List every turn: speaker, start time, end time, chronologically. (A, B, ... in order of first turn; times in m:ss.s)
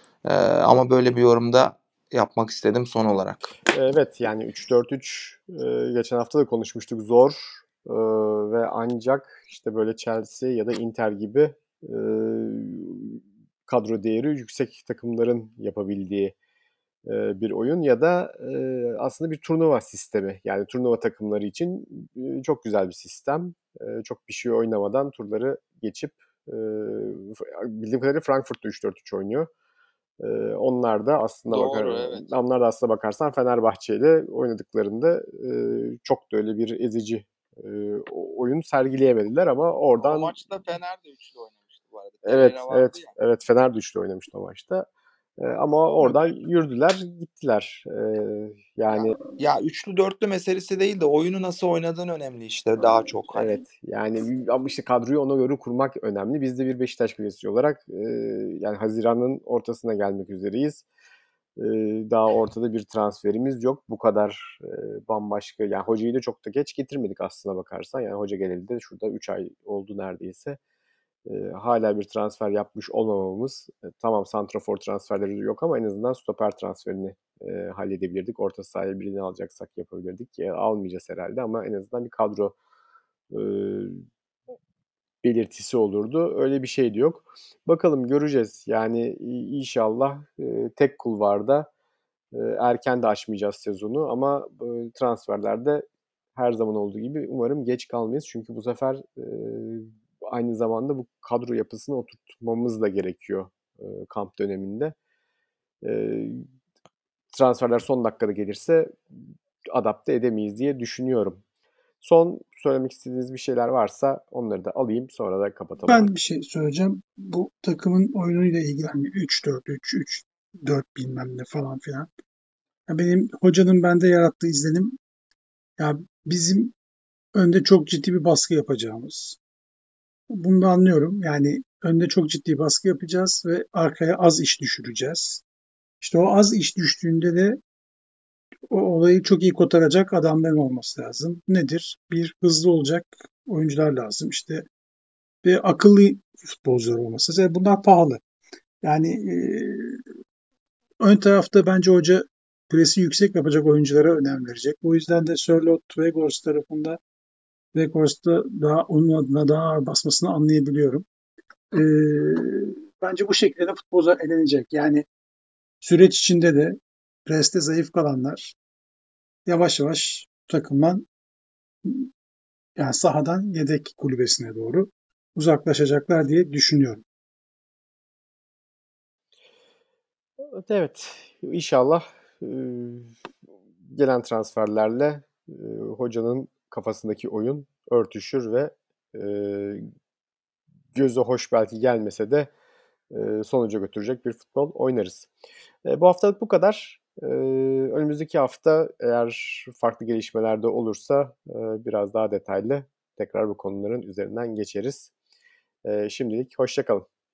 0:00.2-0:03.5 A
0:03.7-0:16.3 B
0:17.0-0:29.5 B
0:30.2-0:40.3 B
0:31.5-0:32.3 A
0:40.0-0:43.1 A
0:42.2-0:44.9 B
0:45.4-0:49.2 B
0:49.4-0:53.6 A
0:53.3-1:00.8 B
1:01.6-1:10.6 B
1:11.2-1:22.5 B
1:23.3-1:24.0 B
1:25.2-1:31.7 B
1:32.3-1:35.8 B
1:36.4-1:44.9 B
1:45.8-1:46.4 B
1:47.3-1:49.2 B
1:49.7-1:51.4 B
1:52.0-1:56.1 B
1:55.8-2:02.1 C
2:02.9-2:05.0 C
2:05.8-2:06.7 C
2:07.3-2:09.4 C
2:10.3-2:15.4 C
2:16.0-2:17.6 C
2:18.7-2:24.7 C
2:25.4-2:28.2 C
2:28.8-2:30.0 C
2:31.0-2:37.0 C
2:37.7-2:41.0 C
2:41.7-2:45.0 C
2:45.8-2:48.6 C
2:49.4-2:51.0 C
2:52.8-2:57.0 C
3:00.5-3:03.1 B
3:03.9-3:09.8 B
3:10.9-3:12.5 B
3:13.1-3:15.3 B
3:15.8-3:25.1 B
3:25.8-3:27.0 B